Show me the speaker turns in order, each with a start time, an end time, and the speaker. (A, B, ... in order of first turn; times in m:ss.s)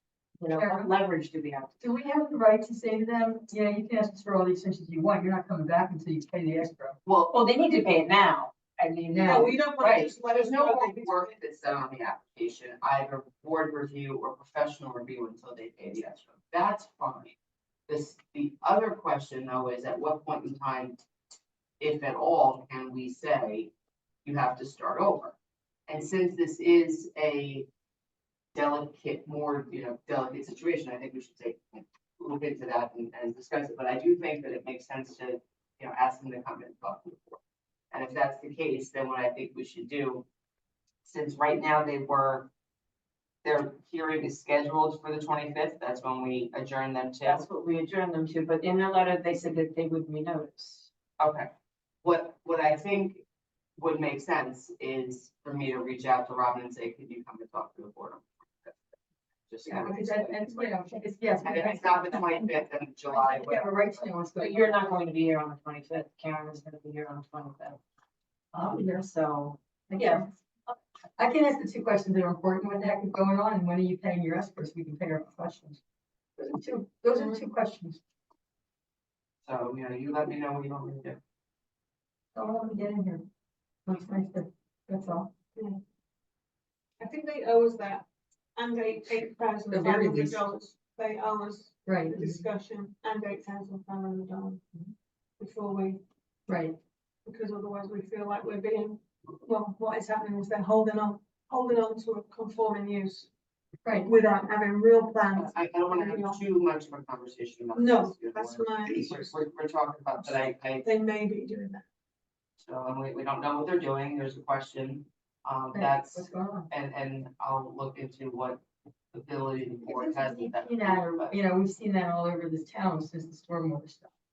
0:00.4-0:01.8 A
0:00.5-0:00.9 B
0:01.8-0:07.0 B
0:07.0-0:07.4 C
0:07.3-0:10.1 A
0:09.1-0:09.5 B
0:09.3-0:11.4 D
0:09.8-0:17.4 C
0:17.9-0:21.0 C
0:21.8-0:23.7 C
0:24.2-0:25.4 C
0:25.9-0:27.7 C
0:28.5-0:37.4 C
0:37.9-0:40.2 C
0:41.0-0:42.5 C
0:43.4-0:47.4 C
0:47.2-0:50.9 A
0:51.2-0:51.5 C
0:52.0-0:53.2 C
0:53.8-0:58.8 C
0:59.5-1:00.7 C
0:59.7-1:02.6 B
1:01.3-1:04.1 C
1:03.1-1:04.8 B
1:04.4-1:07.8 A
1:08.5-1:09.1 B
1:08.7-1:10.3 A
1:09.9-1:10.3 B
1:11.2-1:15.8 B
1:16.4-1:18.0 B
1:17.1-1:17.4 D
1:19.4-1:21.2 C
1:22.4-1:23.3 B
1:23.9-1:25.3 B
1:25.6-1:25.8 D
1:27.0-1:28.0 D
1:28.6-1:34.6 D
1:29.7-1:30.5 B
1:31.9-1:32.4 B
1:35.4-1:36.0 D
1:36.5-1:36.8 B
1:37.3-1:43.3 D
1:44.0-1:46.4 D
1:45.3-1:50.9 C
1:47.7-1:49.4 D
1:50.2-1:51.8 D
1:52.6-2:01.4 C
1:55.7-1:56.7 B
1:59.9-2:04.1 B